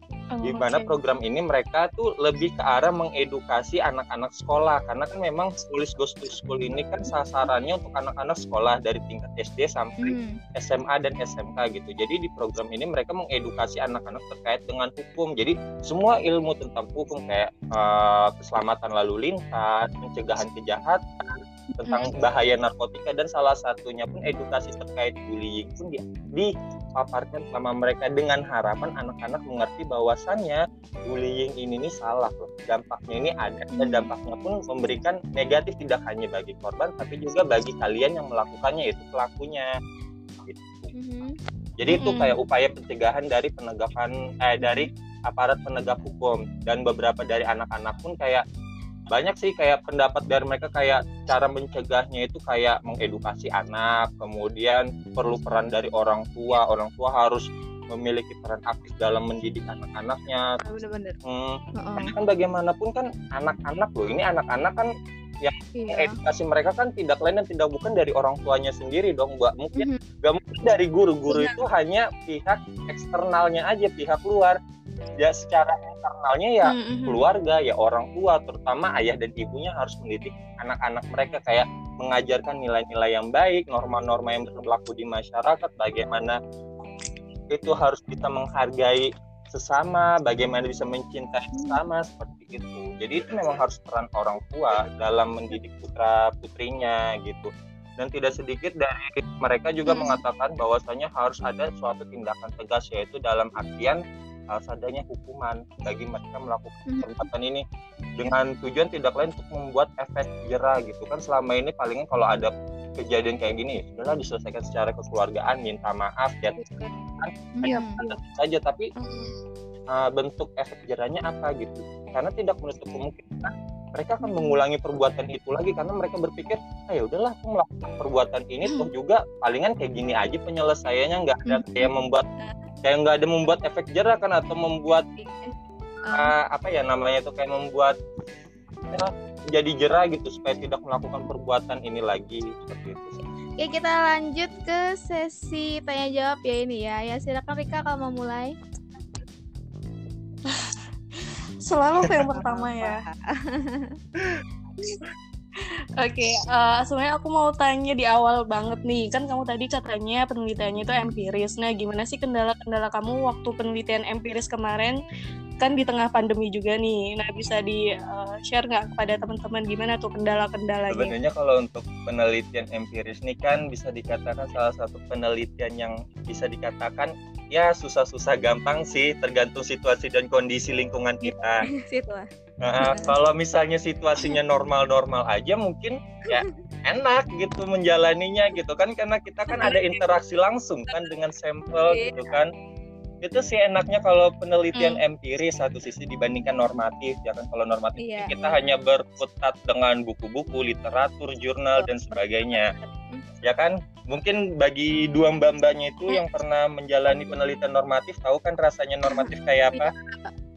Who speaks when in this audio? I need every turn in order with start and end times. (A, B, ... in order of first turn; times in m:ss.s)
0:00.4-0:00.9 A
0:00.4-0:39.7 B
0:10.0-0:10.4 C
0:33.7-0:34.1 C
0:40.4-0:40.9 B
0:40.9-0:41.4 C
0:41.8-0:48.4 B
0:41.9-0:42.4 A
0:44.6-0:44.9 C
0:49.1-1:00.4 B
1:00.6-1:01.2 C
1:01.2-1:04.9 B
1:01.8-1:02.1 C
1:05.4-1:14.6 B
1:05.7-1:06.1 C
1:11.3-1:11.6 C
1:15.2-1:26.4 B
1:16.6-1:17.2 A
1:27.5-1:47.6 B
1:31.5-1:31.8 C
1:39.9-1:40.2 C
1:46.9-1:47.3 C
1:48.2-1:56.6 B
1:56.6-1:56.9 C
1:57.2-1:58.9 B
1:57.6-1:58.0 C
1:57.6-1:58.2 A
1:59.0-1:59.3 A
1:59.9-2:12.2 B
2:04.2-2:04.6 C
2:08.6-2:08.9 A
2:11.4-2:11.9 C
2:12.8-2:15.0 B
2:15.2-2:15.5 C
2:16.0-2:16.3 C
2:16.1-2:18.0 B
2:18.9-2:23.2 B
2:23.6-2:28.5 C
2:30.5-2:33.0 A
2:32.2-2:34.0 C
2:35.6-2:45.0 A
2:45.6-2:51.1 A
2:50.9-3:01.7 B
3:01.2-3:02.3 C
3:02.6-3:12.5 B
3:02.8-3:03.1 C
3:11.9-3:12.4 C
3:13.2-3:22.7 B
3:14.8-3:15.0 A
3:18.0-3:18.3 C
3:21.8-3:23.2 C
3:23.4-3:29.9 B
3:29.0-3:30.3 C